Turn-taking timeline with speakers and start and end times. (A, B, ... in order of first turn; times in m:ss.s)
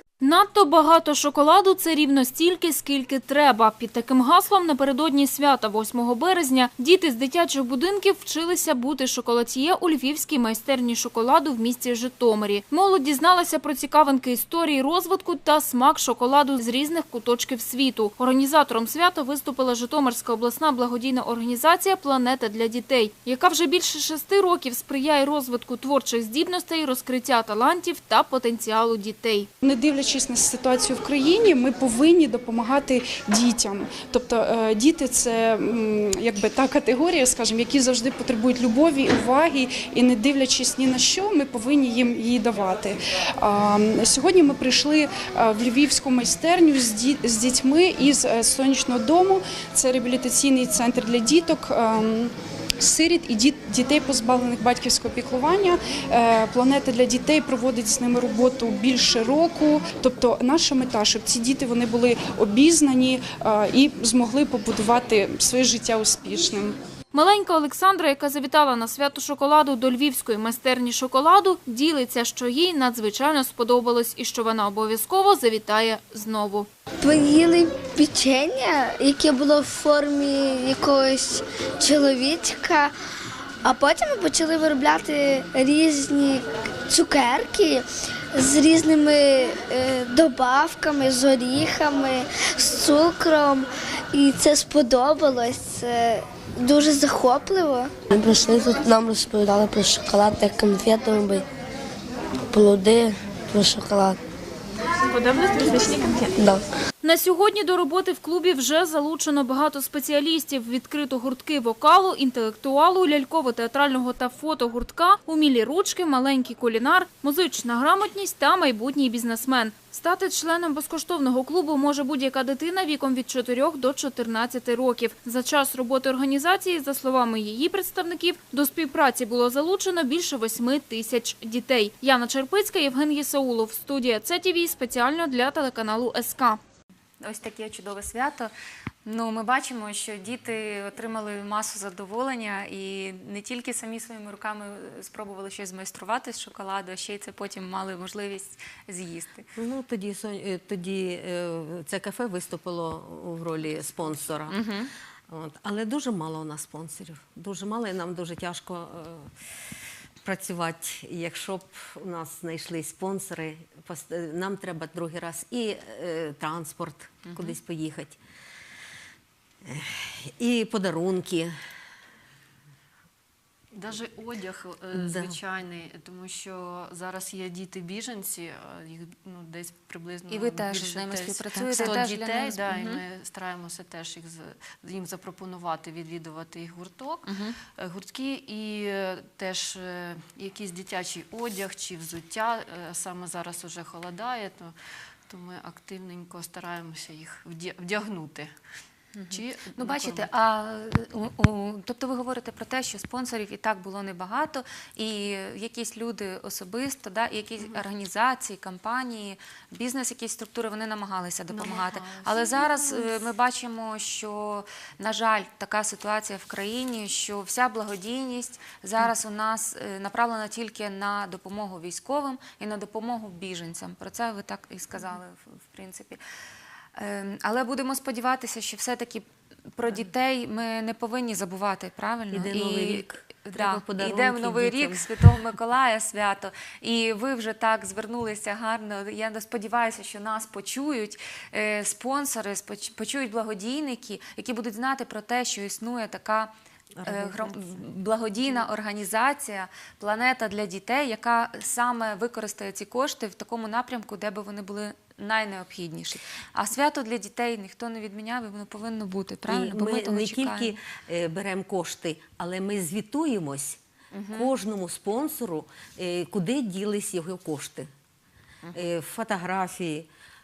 0:00.2-0:29.5 A
0:29.6-1:06.8 B
1:07.1-1:16.7 A
1:17.0-1:22.9 C
1:23.6-1:41.4 C
1:42.5-1:44.2 C
1:46.4-1:46.6 C
1:47.0-2:16.6 A
2:17.2-2:18.5 D
2:19.0-2:29.5 D
2:29.6-2:34.6 E
2:34.5-2:34.9 D
2:35.3-2:39.3 E
2:40.2-2:48.2 E
2:47.2-2:47.6 D
2:49.6-2:51.5 E
2:53.7-3:14.8 F
2:54.9-2:55.4 E
3:00.3-3:03.0 D
3:01.7-3:02.0 E
3:07.3-3:07.6 D
3:15.3-3:18.5 F
3:19.2-3:46.2 D
3:19.3-3:20.3 F
3:31.5-3:33.2 F
3:47.0-4:06.5 D
3:52.3-3:55.1 E
4:07.0-4:07.8 E
4:07.0-4:20.8 D
4:19.5-4:23.8 E
4:24.1-4:24.5 D
4:24.3-4:27.9 E
4:28.7-4:30.1 E